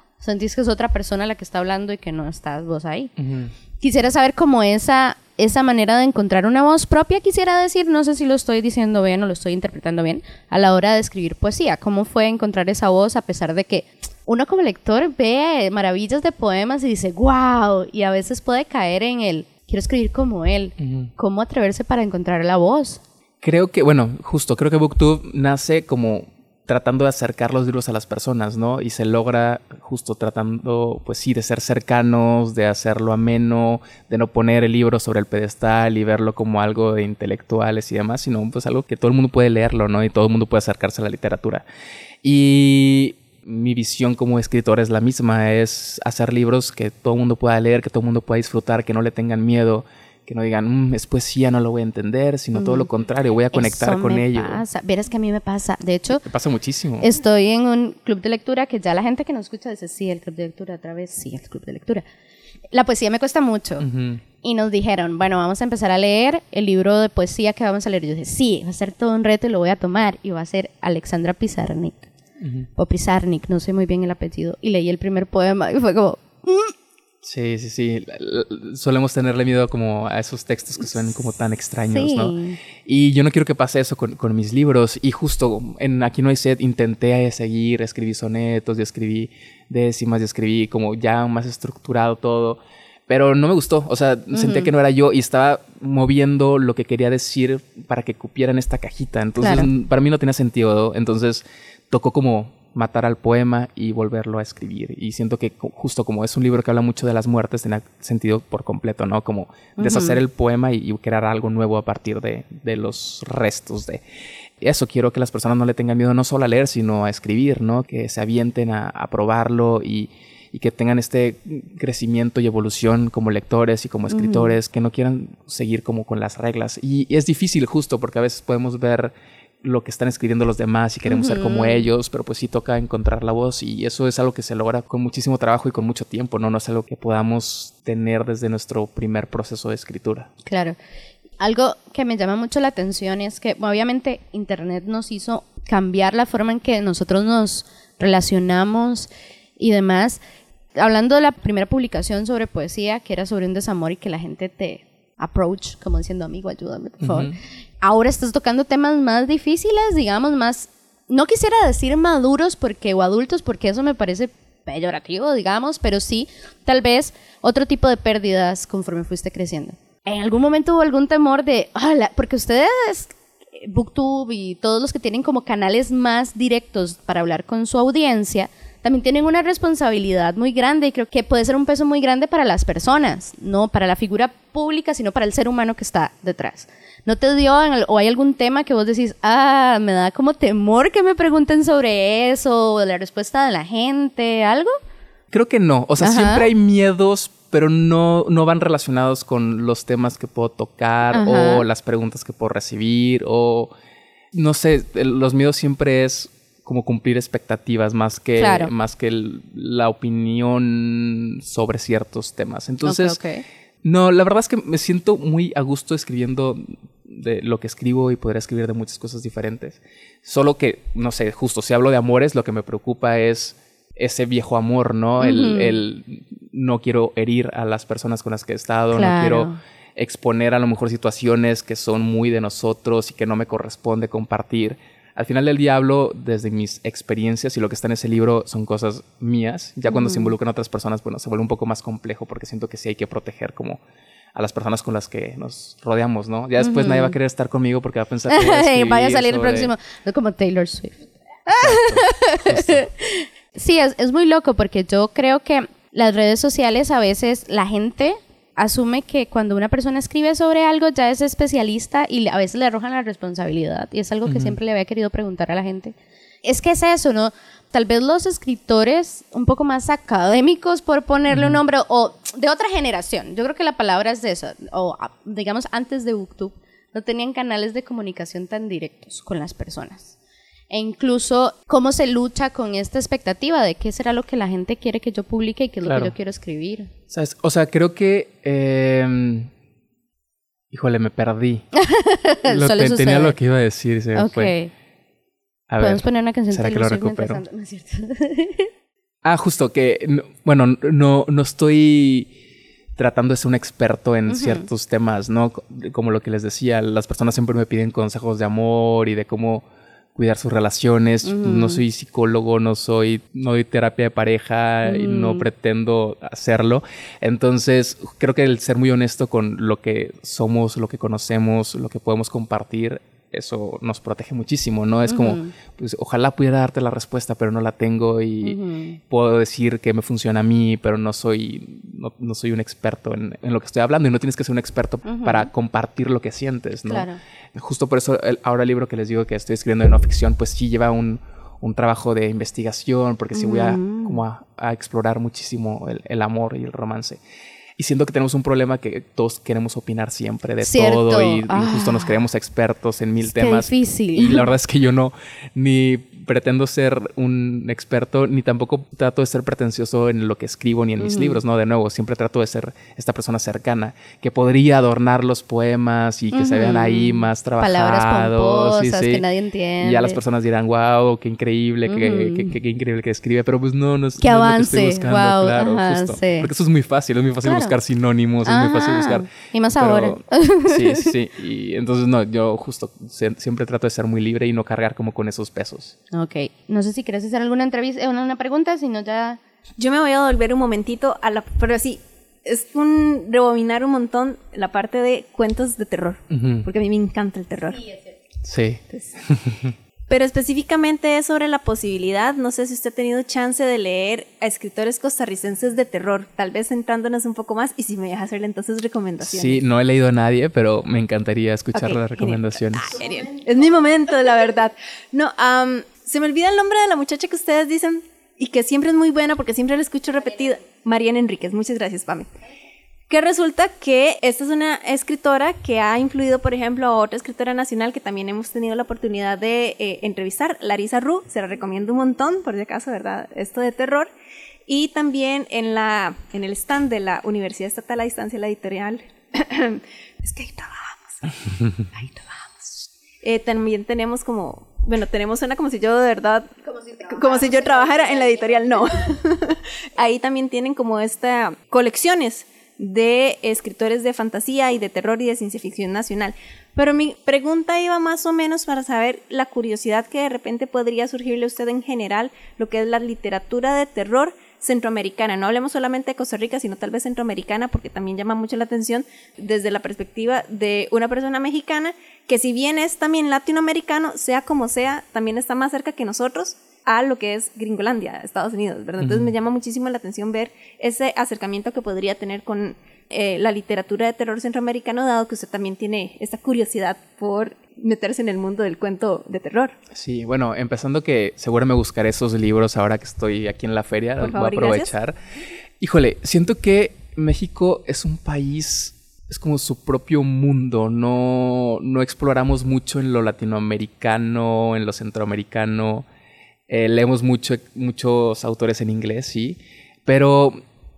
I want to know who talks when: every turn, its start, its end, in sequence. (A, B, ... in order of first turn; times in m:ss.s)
0:00.2-0:03.1 A
0:03.2-0:03.5 B
0:03.8-0:23.0 A
0:20.8-0:21.1 B
0:23.4-0:41.6 B
0:42.2-0:54.6 B
0:52.5-0:52.9 A
0:53.5-0:56.2 A
0:56.1-0:57.1 B
0:57.0-1:02.0 A
1:02.7-1:03.9 A
1:03.8-1:04.2 B
1:04.4-1:12.1 A
1:12.4-1:12.7 B
1:12.8-1:16.7 A
1:17.2-1:54.0 B
1:21.9-1:22.6 A
1:34.3-1:34.7 A
1:39.4-1:39.7 A
1:49.8-1:50.2 A
1:54.6-2:20.3 B
2:04.1-2:04.6 A
2:11.1-2:11.9 A
2:20.4-2:20.8 A
2:21.4-2:30.2 A
2:30.8-3:14.8 A
2:37.0-2:37.4 B
3:15.3-3:23.7 B
3:16.0-3:16.4 A
3:21.1-3:21.6 A
3:24.3-3:33.2 B
3:28.4-3:28.7 A
3:32.8-3:33.4 A
3:33.8-4:03.8 B
3:45.2-3:45.8 A
3:48.9-3:49.6 A
3:59.9-4:00.4 A
4:04.4-4:09.7 B
4:06.6-4:07.2 A
4:08.3-4:40.2 A
4:11.6-4:12.8 B
4:24.3-4:24.6 B
4:31.3-4:31.6 B
4:40.7-4:46.9 A
4:45.8-4:46.1 B
4:47.1-4:49.5 B
4:50.7-4:51.6 B
4:51.7-4:53.4 A
4:52.4-4:54.5 B
4:54.1-4:54.7 A
4:55.7-4:57.4 B
4:55.8-4:58.7 A
4:59.2-5:02.3 B
5:03.0-5:47.2 B
5:04.3-5:04.7 A
5:11.2-5:11.8 A
5:14.8-5:15.4 A
5:25.1-5:25.5 A
5:28.4-5:29.0 A
5:35.1-5:35.5 A
5:36.9-5:37.2 A
5:43.3-5:44.2 A
5:47.8-6:09.2 B
5:50.6-5:52.2 A
5:53.3-5:54.5 A
6:01.0-6:01.4 A
6:06.3-6:10.2 A
6:09.8-6:25.9 B
6:11.8-6:12.5 A
6:14.2-6:16.5 A
6:17.4-6:17.7 A
6:18.4-6:21.1 A
6:26.1-6:29.4 A
6:29.8-6:37.9 C
6:36.3-6:36.6 B
6:38.4-6:39.7 B
6:40.1-6:49.6 C
6:49.2-6:53.0 B
6:51.7-7:02.3 C
7:03.1-7:14.1 C
7:14.7-8:09.8 C
7:27.4-7:27.7 A
7:59.0-7:59.3 B
8:09.9-8:15.1 B
8:14.2-8:14.9 C
8:15.8-8:26.1 B
8:26.7-8:30.6 B